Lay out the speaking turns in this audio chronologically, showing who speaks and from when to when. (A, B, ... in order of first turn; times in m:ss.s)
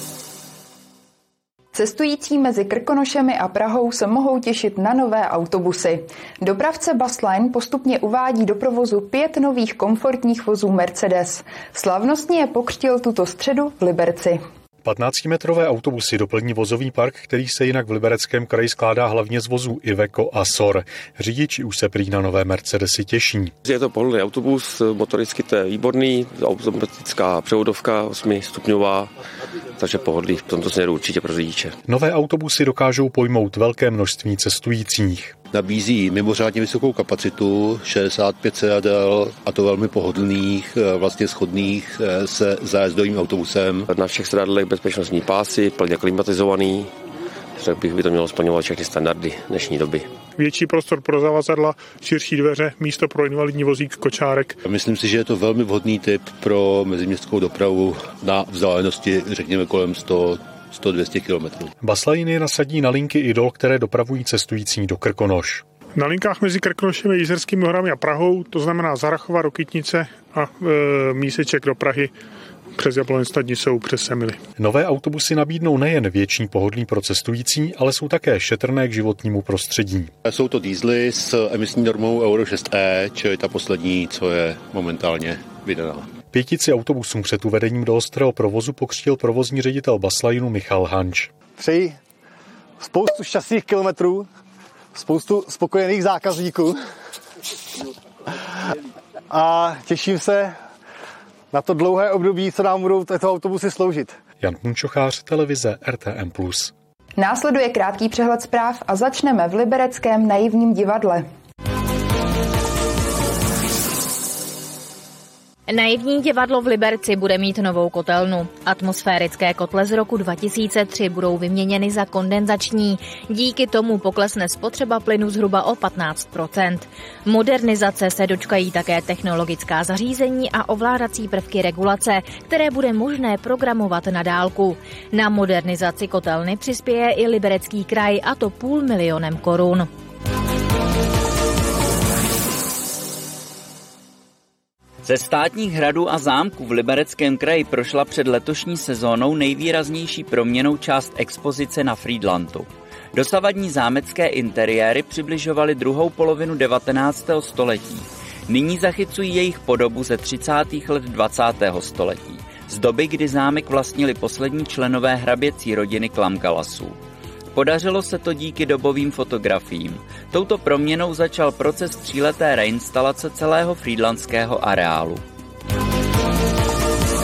0:01.7-0:14.4 A
0:14.8-0:23.5 B
0:23.6-0:29.1 C
0:29.8-0:31.8 C
0:31.9-0:35.3 B
0:35.5-0:43.9 D
0:43.9-0:46.9 C
0:47.6-0:50.1 C
0:50.4-0:54.6 E
0:54.6-1:01.7 D
1:01.8-1:05.6 B
1:06.0-1:12.1 E
1:12.8-1:14.4 E
1:14.6-1:20.1 B
1:20.2-1:26.1 D
1:26.3-1:31.3 B
1:31.6-1:32.0 F
1:32.8-1:34.3 F
1:35.0-1:36.8 F
1:39.3-1:40.6 F
1:41.5-1:44.2 F
1:44.4-1:46.7 B
1:47.2-1:51.2 A
1:55.7-2:19.9 G
2:25.0-2:47.0 H
2:47.6-2:55.2 H